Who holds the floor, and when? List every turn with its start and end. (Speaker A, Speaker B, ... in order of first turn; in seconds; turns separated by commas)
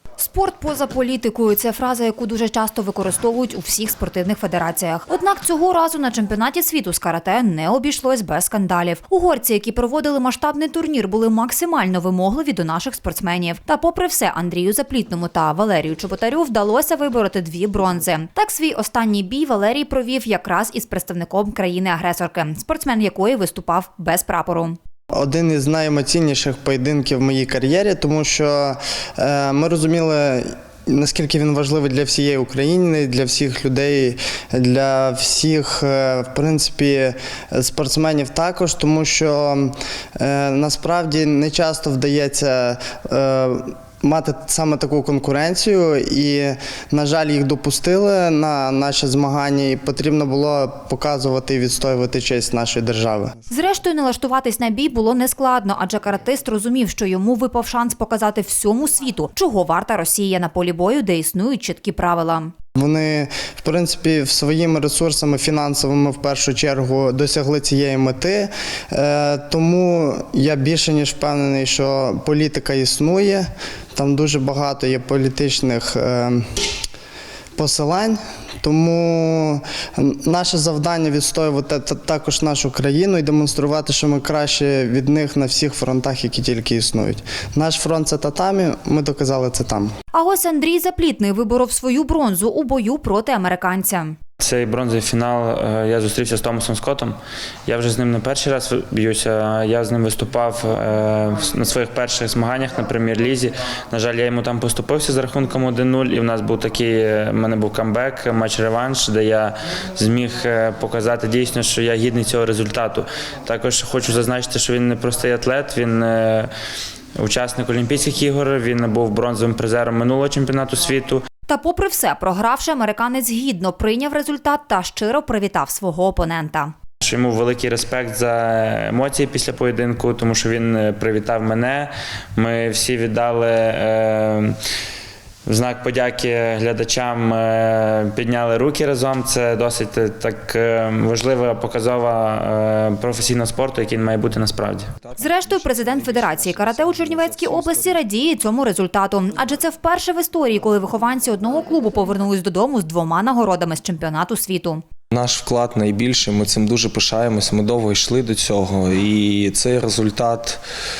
Speaker A: 0.2-24.8, Speaker B: 25.1-53.3, Speaker A: 53.5-62.5, Speaker B: 62.8-76.4, Speaker B: 77.6-89.9, Speaker A: 90.1-94.2, Speaker C: 94.4-97.1, Speaker C: 97.7-116.5, Speaker C: 117.2-121.2, Speaker A: 121.5-126.7, Speaker C: 127.0-134.5, Speaker C: 135.4-144.8, Speaker D: 145.0-148.0, Speaker A: 145.2-154.8, Speaker D: 155.1-160.6